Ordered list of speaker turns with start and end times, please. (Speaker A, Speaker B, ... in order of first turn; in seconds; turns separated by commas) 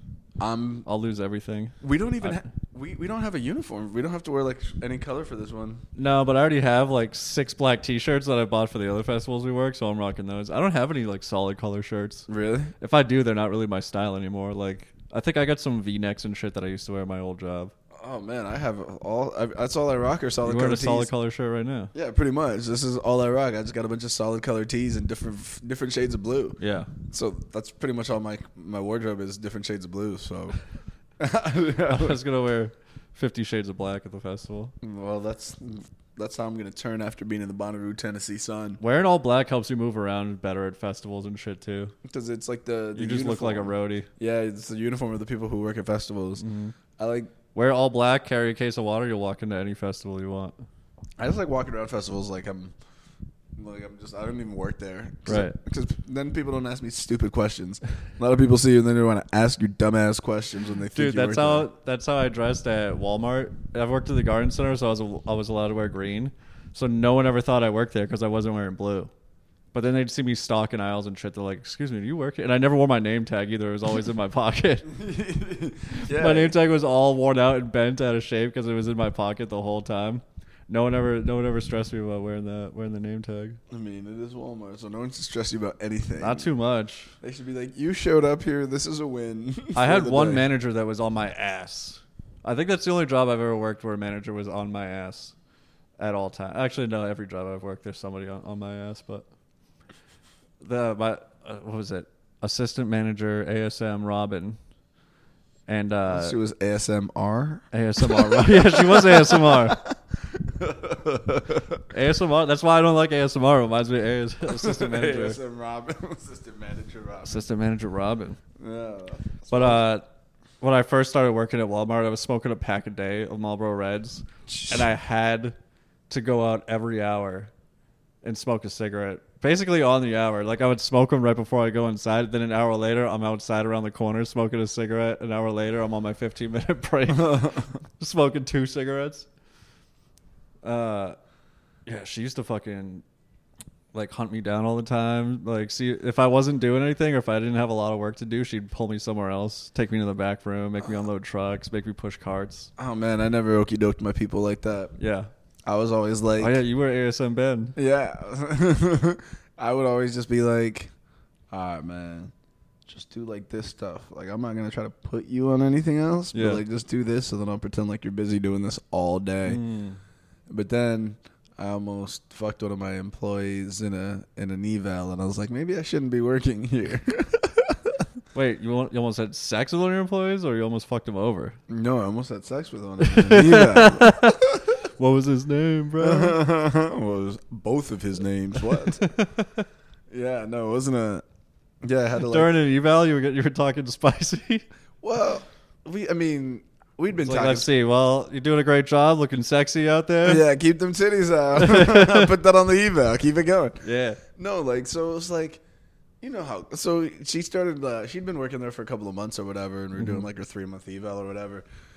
Speaker A: 0.4-0.8, Speaker B: 0.8-2.4, Speaker A: 1.8-5.8, Speaker B: 6.0-12.3, Speaker A: 12.3-12.7, Speaker B: 12.8-17.7, Speaker A: 17.9-21.1, Speaker B: 20.4-21.9, Speaker A: 21.9-30.6, Speaker B: 26.6-26.9, Speaker A: 31.2-32.2, Speaker B: 31.9-34.7, Speaker A: 34.8-38.8, Speaker B: 38.8-41.9, Speaker A: 42.0-46.4, Speaker B: 43.0-44.1, Speaker B: 46.4-46.7, Speaker A: 47.0-47.3, Speaker B: 47.5-50.5, Speaker A: 51.2-52.7, Speaker A: 53.5-61.7, Speaker B: 55.3-55.5, Speaker B: 60.9-69.1, Speaker B: 69.7-74.9, Speaker A: 74.8-76.5, Speaker B: 76.0-83.6, Speaker A: 83.7-86.5, Speaker B: 86.2-87.1, Speaker A: 87.2-90.5, Speaker B: 89.7-95.3, Speaker B: 96.0-99.2, Speaker B: 100.6-104.6, Speaker B: 105.7-106.3, Speaker A: 106.1-111.8, Speaker B: 107.7-109.8, Speaker B: 111.9-115.4, Speaker A: 114.5-117.4, Speaker B: 117.2-118.4, Speaker A: 118.6-119.8, Speaker B: 119.5-120.1, Speaker B: 120.6-125.5, Speaker A: 124.5-124.9, Speaker B: 126.1-127.5, Speaker B: 128.2-139.3, Speaker A: 137.1-137.6, Speaker B: 140.6-141.2, Speaker B: 141.8-143.0, Speaker B: 143.9-152.7, Speaker A: 152.8-154.9, Speaker B: 155.0-155.3, Speaker A: 155.7-156.6, Speaker B: 156.4-157.8, Speaker A: 157.8-160.9, Speaker A: 161.5-162.3, Speaker A: 162.9-169.6, Speaker B: 166.3-166.6, Speaker B: 169.4-170.0, Speaker A: 170.5-178.0, Speaker B: 178.3-181.6, Speaker A: 181.7-184.8, Speaker B: 183.0-186.4, Speaker A: 186.0-189.1, Speaker B: 188.6-189.7, Speaker A: 190.1-191.2, Speaker A: 191.8-192.5, Speaker B: 192.2-194.7, Speaker A: 195.0-197.7, Speaker B: 197.2-200.4, Speaker A: 200.2-205.6, Speaker B: 201.6-202.3, Speaker B: 203.8-204.2, Speaker A: 206.2-211.6, Speaker B: 209.9-210.2